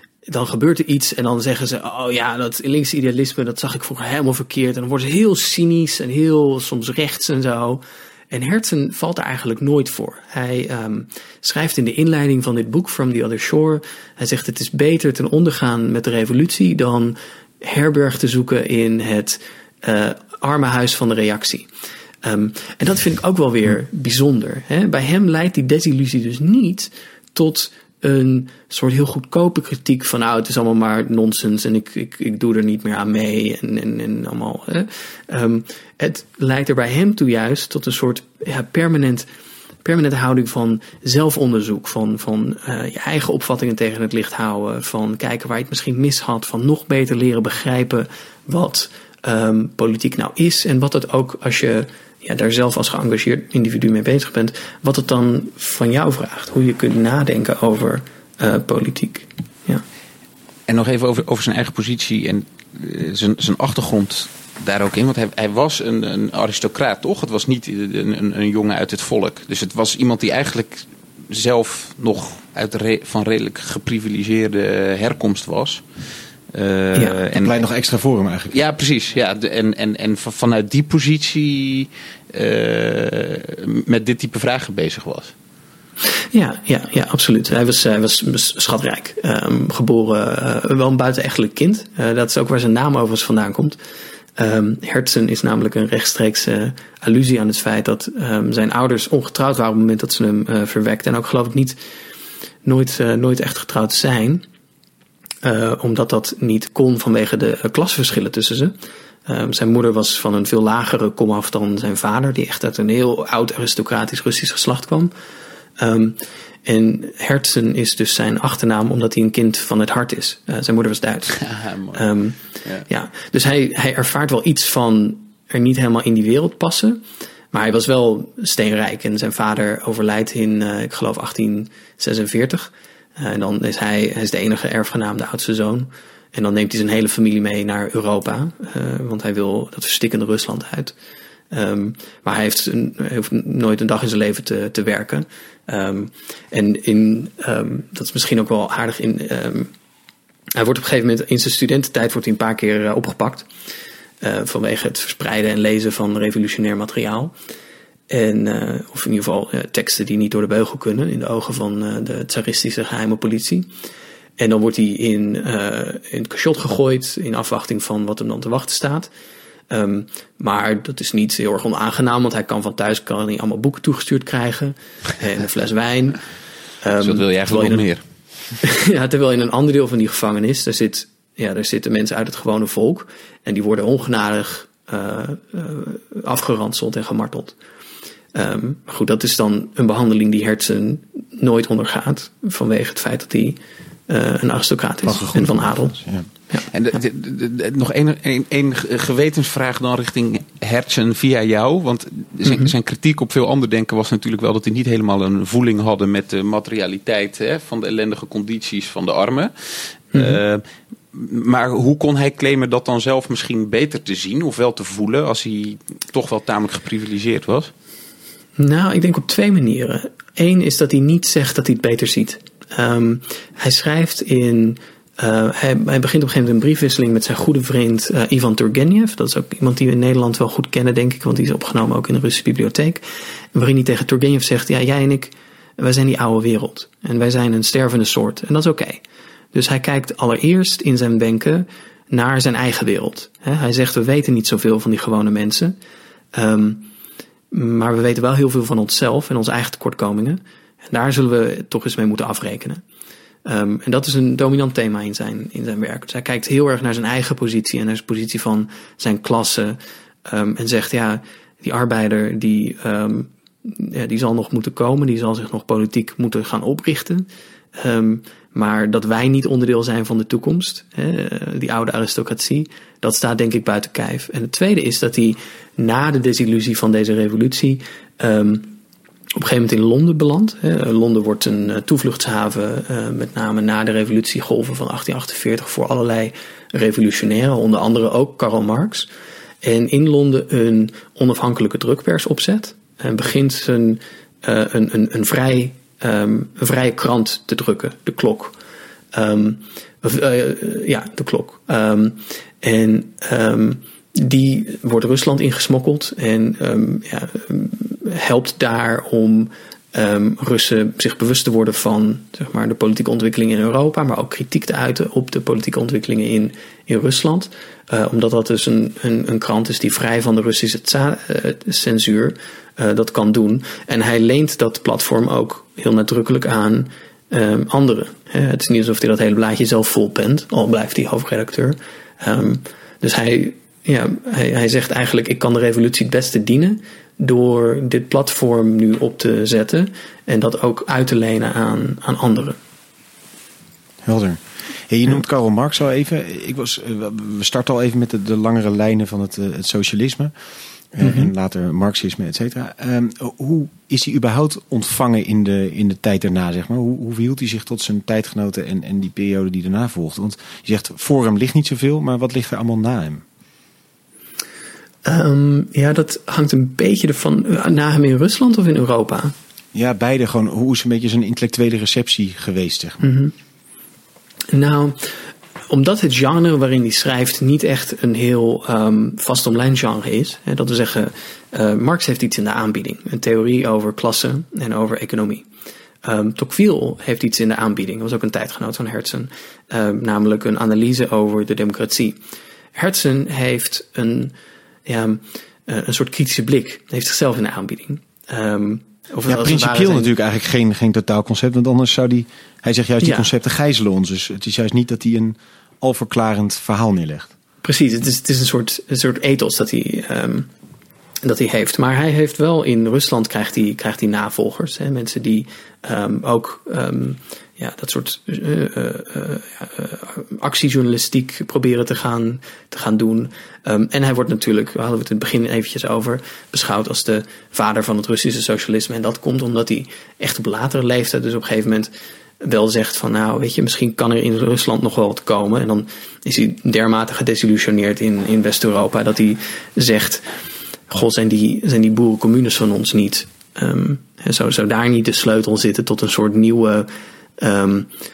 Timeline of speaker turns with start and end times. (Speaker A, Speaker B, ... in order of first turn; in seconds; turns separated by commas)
Speaker A: 0.3-21.7, Speaker A: 22.2-39.3, Speaker A: 39.8-59.8, Speaker B: 60.7-75.8, Speaker B: 76.5-77.6, Speaker A: 76.9-77.2, Speaker C: 77.3-78.5, Speaker B: 78.5-85.3, Speaker A: 86.3-93.8, Speaker A: 94.4-101.8, Speaker A: 102.6-104.4, Speaker A: 105.4-108.7, Speaker A: 109.3-115.1, Speaker A: 115.8-127.0, Speaker B: 121.4-121.9, Speaker A: 127.5-140.9, Speaker A: 141.5-149.7, Speaker A: 150.5-153.5, Speaker A: 154.2-157.3, Speaker A: 158.1-163.7, Speaker A: 164.4-169.1, Speaker A: 169.7-176.2, Speaker A: 176.8-177.8, Speaker B: 177.0-178.0, Speaker A: 178.6-187.5, Speaker A: 188.3-196.7, Speaker C: 195.0-196.3, Speaker B: 196.7-217.7, Speaker A: 202.4-202.7, Speaker A: 210.1-210.4, Speaker A: 218.6-233.0, Speaker A: 233.5-239.0, Speaker A: 239.5-245.7, Speaker A: 246.3-246.9, Speaker A: 247.5-252.8, Speaker A: 253.4-278.7, Speaker A: 279.4-289.1, Speaker A: 289.6-298.5, Speaker A: 299.1-342.6, Speaker C: 344.0-350.3, Speaker C: 350.9-363.2, Speaker A: 351.0-351.3, Speaker A: 365.0-369.3, Speaker C: 369.7-373.1, Speaker A: 373.0-373.3, Speaker A: 374.5-375.1, Speaker A: 375.7-385.4, Speaker A: 386.0-392.2, Speaker A: 392.7-394.3, Speaker A: 394.9-400.1, Speaker C: 399.3-407.3, Speaker A: 403.0-403.3, Speaker A: 407.6-410.5, Speaker A: 411.2-440.2, Speaker A: 440.9-447.9